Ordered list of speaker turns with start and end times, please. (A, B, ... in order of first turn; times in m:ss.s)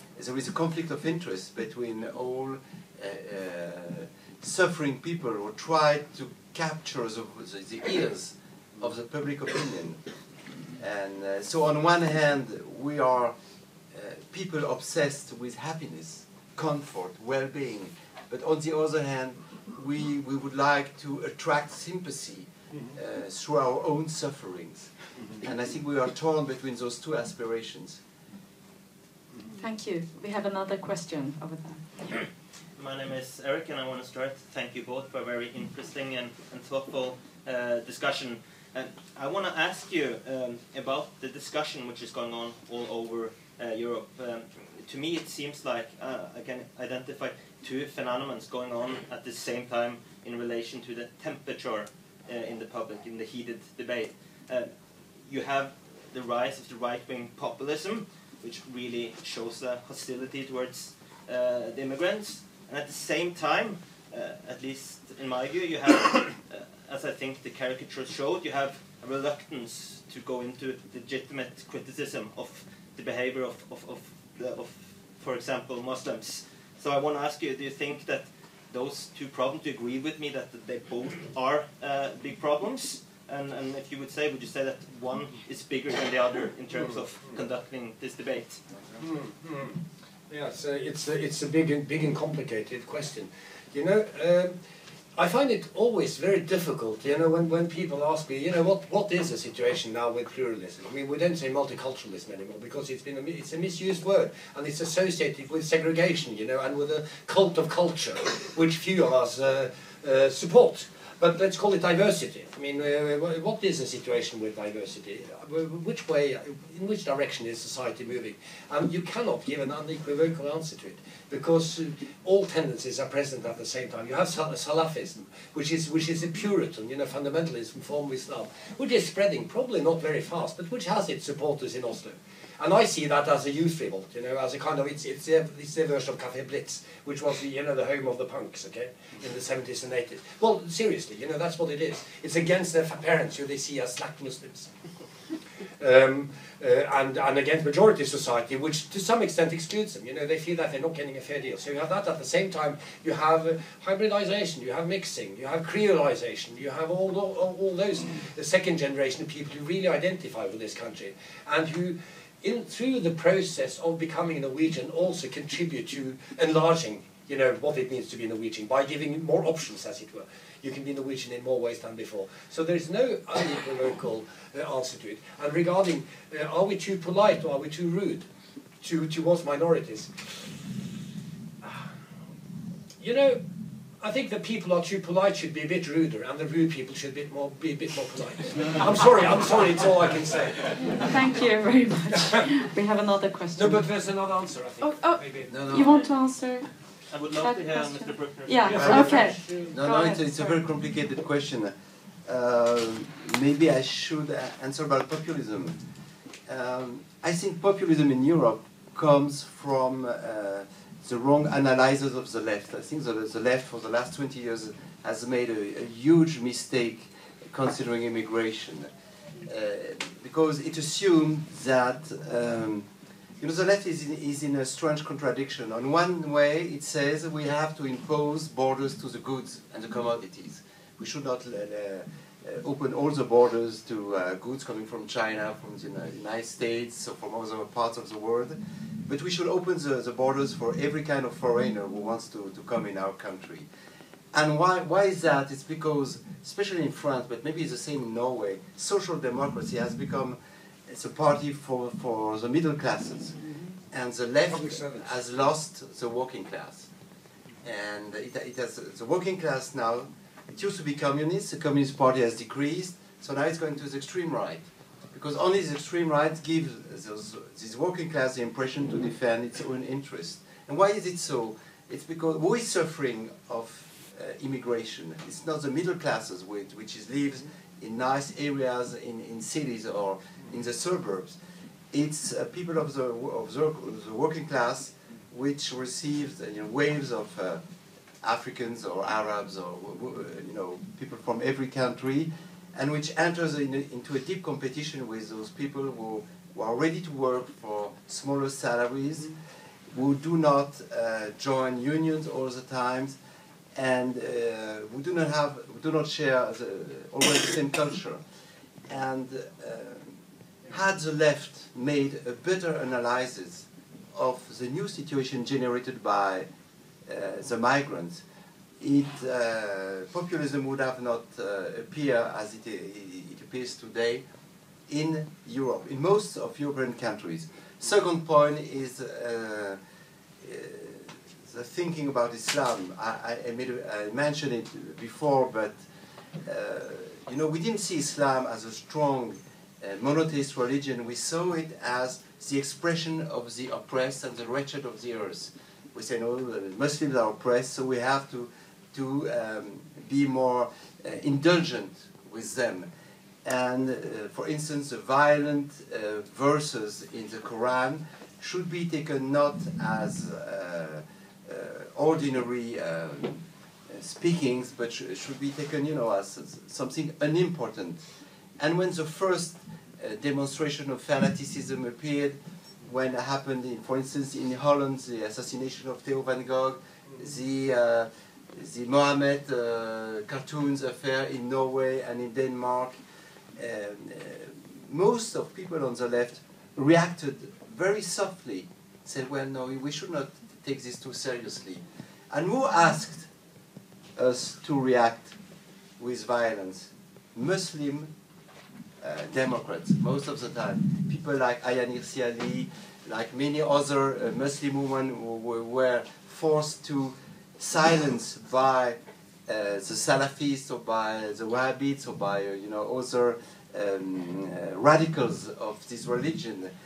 0:00.1-0:13.3 A
0:13.9-0:28.0 A
0:29.6-0:31.9 B
0:32.8-0:54.7 C
0:55.3-1:28.6 C
1:29.0-1:29.8 D
1:30.3-1:34.5 D
1:35.2-2:24.7 D
2:25.8-2:58.3 D
2:58.8-3:00.4 D
3:01.6-3:01.9 D
3:03.0-3:03.4 D
3:04.0-3:11.1 D
3:11.0-3:13.8 B
3:13.6-3:15.7 D
3:14.8-3:16.7 B
3:15.7-3:16.0 C
3:17.1-3:19.2 C
3:17.3-3:20.6 B
3:18.6-3:19.7 D
3:18.7-3:19.1 A
3:19.7-3:21.7 A
3:22.2-3:25.8 A
3:26.5-3:38.9 A
3:39.4-3:42.9 A
3:43.4-4:03.7 A
4:04.3-4:10.4 A
4:10.9-4:13.4 A
4:13.4-4:13.7 D
4:13.9-4:16.9 A
4:14.5-4:15.1 D
4:17.6-4:41.4 A
4:41.9-4:47.6 A
4:48.2-4:59.4 A
4:59.9-5:03.2 A
5:03.7-5:08.2 A
5:08.9-5:10.2 A
5:10.7-5:16.5 A
5:17.0-5:18.2 A
5:18.8-5:24.2 A
5:24.9-5:29.8 A
5:30.4-5:35.8 A
5:36.4-5:52.9 A
5:53.4-6:08.0 A
6:08.6-6:23.0 A
6:23.6-6:33.3 A
6:34.2-6:35.3 A
6:36.0-6:38.1 A
6:39.0-6:56.7 A